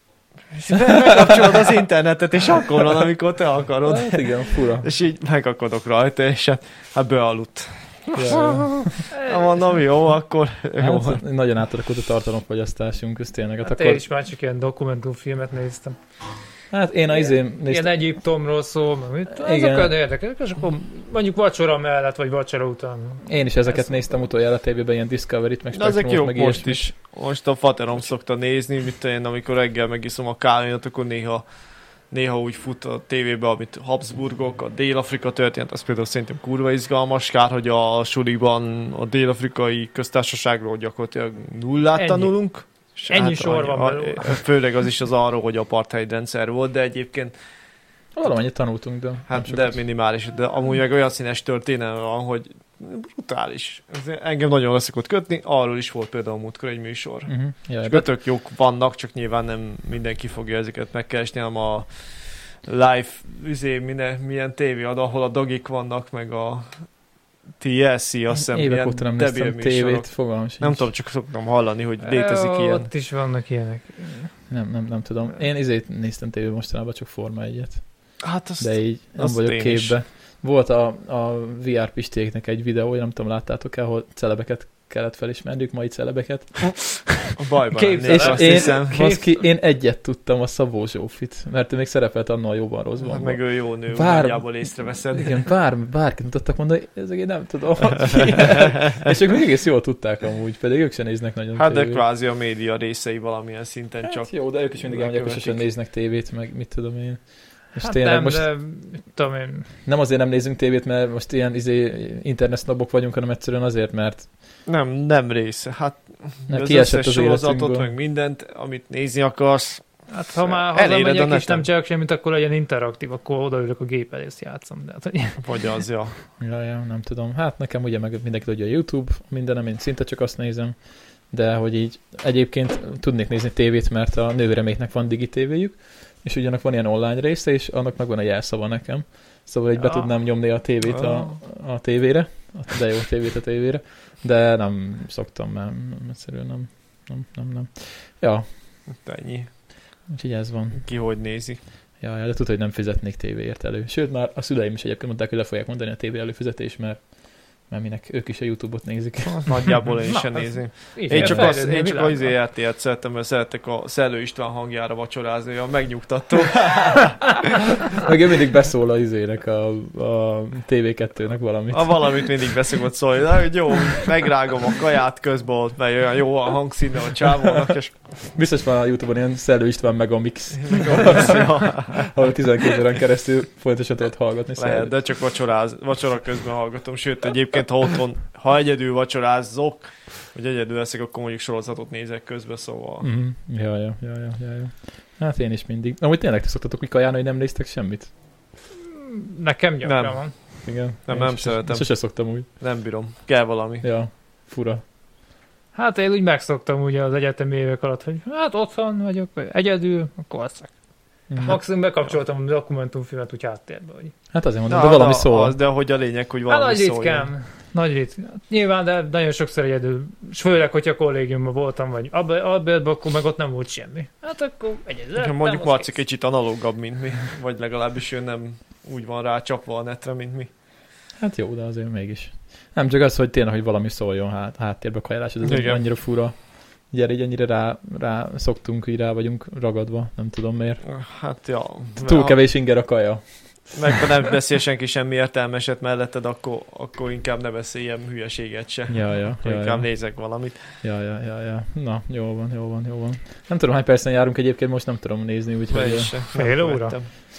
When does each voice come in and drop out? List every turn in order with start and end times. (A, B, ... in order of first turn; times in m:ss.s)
0:00.5-0:11.2 A
0:03.8-0:04.9 B
0:08.1-0:09.0 B
0:09.1-0:09.5 C
0:10.8-0:14.0 B
0:13.6-0:16.0 C
0:16.7-0:18.0 B
0:17.7-0:23.8 C
0:19.3-0:20.0 B
0:23.3-0:26.9 B
0:25.7-0:31.4 A
0:32.1-0:47.3 A
0:42.0-0:42.3 C
0:43.1-0:44.4 C
0:48.2-0:49.8 B
0:49.3-1:01.9 A
0:57.3-0:58.1 B
1:02.6-1:06.8 A
1:07.6-1:12.9 A
1:08.4-1:10.9 B
1:12.0-1:14.3 C
1:14.5-1:17.8 B
1:18.2-1:20.0 A
1:18.6-1:27.3 B
1:27.3-1:29.1 A
1:27.7-1:29.3 C
1:28.1-1:42.0 B
1:33.0-1:35.4 A
1:38.1-1:38.7 A
1:41.6-1:45.6 A
1:44.1-1:48.5 B
1:47.8-1:49.7 C
1:49.9-1:54.3 B
1:54.7-1:59.8 A
1:56.5-1:57.9 B
2:00.1-2:05.4 C
2:00.4-2:01.6 A
2:05.4-2:06.2 A
2:06.4-2:10.8 B
2:11.3-2:28.4 B
2:20.9-2:21.4 A
2:29.0-2:29.5 A
2:30.1-2:30.8 B
2:30.8-2:31.6 A
2:32.0-2:37.1 B
2:37.7-2:39.9 B
2:39.3-2:47.6 A
2:40.1-2:42.3 C
2:41.1-2:41.5 B
2:47.7-2:52.3 B
2:51.7-2:58.1 A
2:57.4-2:57.8 B
2:58.3-3:04.9 B
3:00.6-3:02.1 A
3:04.6-3:13.1 A
3:13.0-3:18.1 B
3:18.9-3:20.3 C
3:19.8-3:20.2 A
3:20.6-3:22.5 B
3:21.1-3:23.8 A
3:23.8-3:24.8 B
3:25.8-3:30.7 C
3:31.3-3:31.6 B
3:31.4-3:34.1 C
3:34.3-3:35.6 B
3:34.7-3:37.3 A
3:36.5-3:46.0 C
3:45.2-3:50.5 A
3:51.2-3:56.4 B
3:55.4-3:55.8 A
3:56.9-4:00.8 B
4:00.8-4:02.4 A
4:02.0-4:04.0 B
4:03.7-4:10.7 A
4:08.9-4:09.9 B
4:10.8-4:16.1 B
4:15.7-4:17.1 A
4:16.4-4:17.0 C